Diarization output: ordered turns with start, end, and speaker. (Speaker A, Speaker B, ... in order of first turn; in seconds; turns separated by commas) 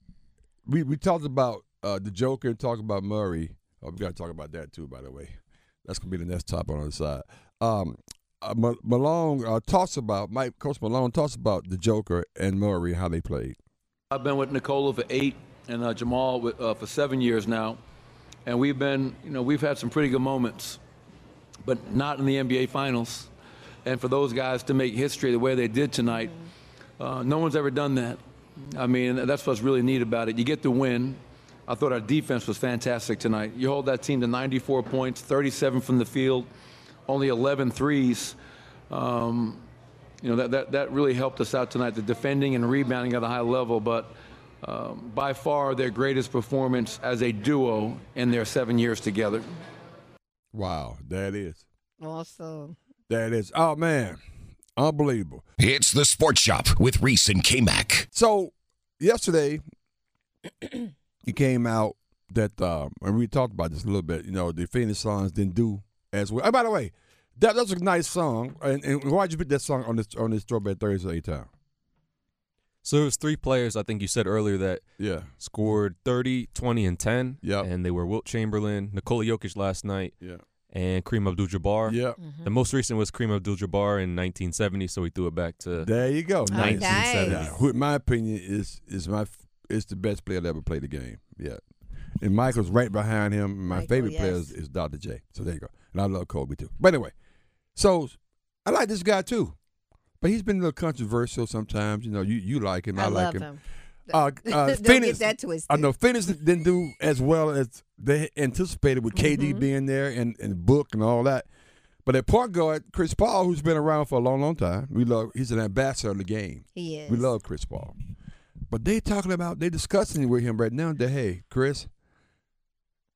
Speaker A: 0.7-13.6, Speaker B: 14.1-17.8, Speaker B: 18.4-20.8, Speaker B: 21.6-23.3, Speaker B: 23.8-26.4, Speaker B: 27.0-36.5, Speaker B: 37.1-38.4, Speaker B: 38.9-39.7, Speaker B: 40.2-49.5, Speaker A: 50.5-51.6, Speaker C: 52.0-52.8, Speaker A: 53.1-54.2, Speaker A: 54.8-55.5, Speaker D: 55.6-58.1, Speaker A: 58.1-59.6, Speaker A: 61.2-71.5, Speaker E: 72.8-74.9, Speaker A: 75.0-75.3, Speaker E: 75.4-80.2, Speaker A: 77.4-77.7, Speaker E: 80.7-85.9, Speaker A: 81.8-82.2, Speaker C: 82.2-82.5, Speaker A: 85.8-91.6, Speaker E: 86.5-87.6, Speaker C: 86.5-87.5, Speaker A: 92.2-97.1, Speaker C: 93.7-94.5, Speaker A: 97.7-99.5, Speaker A: 100.2-103.5, Speaker C: 103.0-105.9, Speaker A: 104.1-111.5, Speaker C: 109.1-109.7, Speaker A: 112.0-117.9, Speaker C: 116.7-117.3, Speaker A: 118.7-121.9